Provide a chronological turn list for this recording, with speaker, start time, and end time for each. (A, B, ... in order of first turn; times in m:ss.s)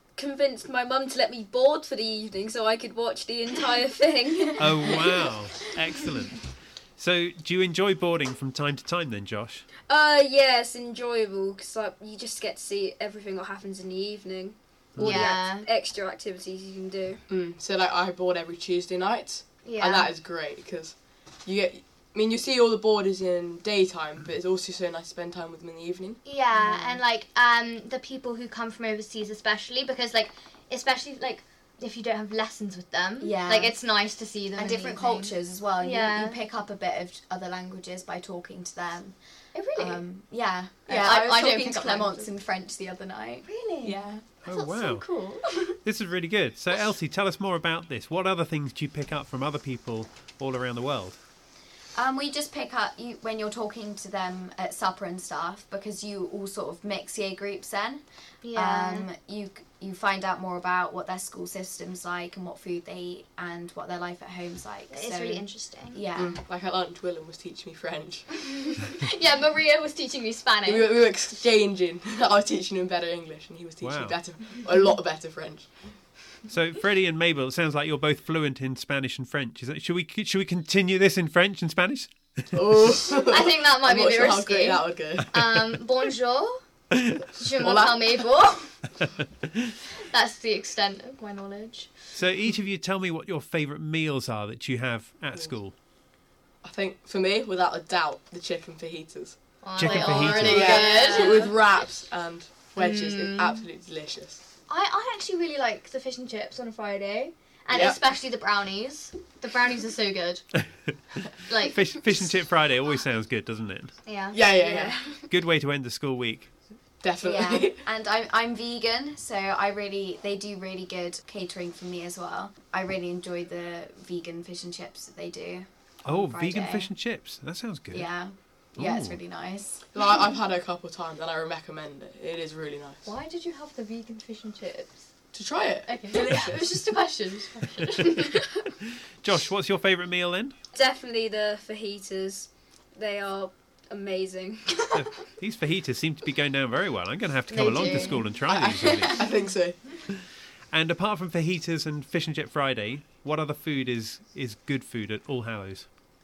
0:00.2-0:05.3 A
0:04.6-0:06.4 B
0:07.0-0:09.6 B
0:09.9-0:17.2 A
0:15.0-0:15.3 B
0:15.0-0:15.7 C
0:17.3-0:21.0 D
0:19.6-0:20.1 C
0:21.5-0:26.2 D
0:26.2-0:36.4 C
0:26.5-0:27.0 E
0:33.2-0:33.8 E
0:34.5-0:39.2 E
0:39.6-0:40.0 C
0:39.8-0:45.3 E
0:40.9-0:42.3 C
0:43.5-0:44.0 C
0:44.4-0:45.0 B
0:44.6-0:45.4 C
0:45.8-0:51.2 B
0:52.0-0:58.0 E
0:58.4-0:59.1 C
0:58.5-1:06.4 E
1:04.9-1:06.1 C
1:06.2-1:08.4 D
1:08.8-1:10.9 C
1:10.6-1:15.7 D
1:13.8-1:14.2 B
1:16.5-1:22.6 B
1:22.5-1:25.4 D
1:23.2-1:26.5 C
1:26.9-1:27.3 B
1:27.3-1:28.8 C
1:27.6-1:28.3 D
1:29.0-1:29.7 B
1:30.0-1:31.9 C
1:32.2-1:35.8 B
1:36.6-1:44.4 D
1:39.6-1:41.5 C
1:39.8-1:40.8 B
1:40.2-1:41.5 A
1:42.8-1:43.7 C
1:44.7-1:50.4 C
1:47.7-1:48.0 D
1:51.5-1:51.8 C
1:51.7-1:53.9 B
1:54.1-1:54.5 C
1:54.3-1:55.0 D
1:54.6-1:55.2 A
1:55.3-1:56.5 B
1:57.0-1:57.8 D
1:57.2-2:06.9 E
2:06.1-2:08.1 B
2:07.9-2:09.8 E
2:08.8-2:09.2 B
2:09.9-2:13.0 D
2:13.0-2:15.1 C
2:15.3-2:16.6 D
2:15.9-2:18.5 C
2:19.2-2:20.6 B
2:20.7-2:25.1 A
2:24.9-2:29.3 B
2:27.5-2:28.4 C
2:27.9-2:29.8 D
2:30.1-2:35.9 B